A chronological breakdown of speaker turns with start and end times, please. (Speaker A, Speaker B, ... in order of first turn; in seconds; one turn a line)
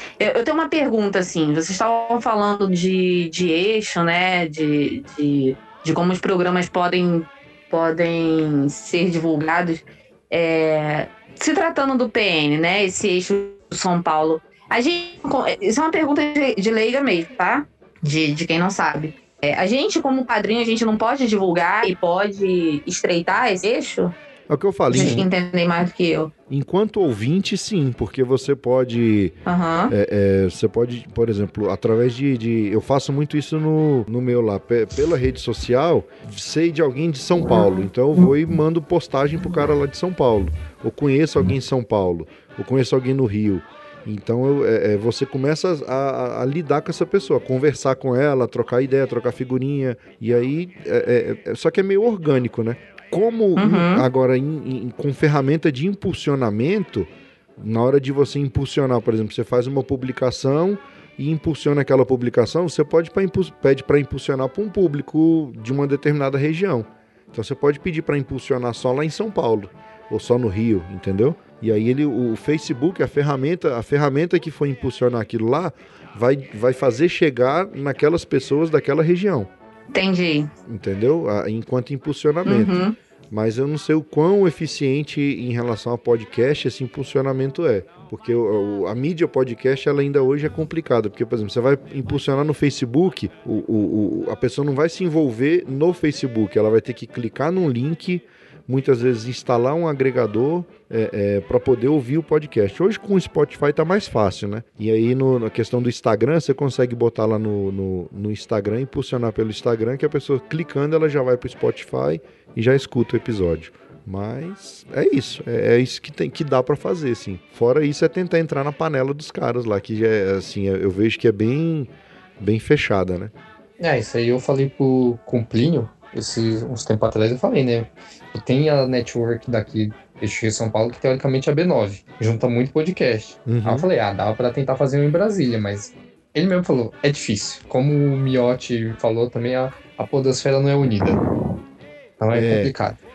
Speaker A: 0.2-24.1
Speaker B: 24.5-25.3
Speaker A: 24.9-26.3
Speaker C: 24.9-25.2
Speaker B: 26.5-29.3
Speaker A: 29.4-29.9
Speaker B: 29.9-79.5
Speaker A: 53.6-54.0
Speaker A: 79.9-80.5
Speaker B: 80.7-123.3
Speaker A: 82.5-83.0
Speaker C: 123.8-141.2
Speaker B: 133.4-133.9
Speaker C: 142.2-143.0
Speaker B: 142.3-142.7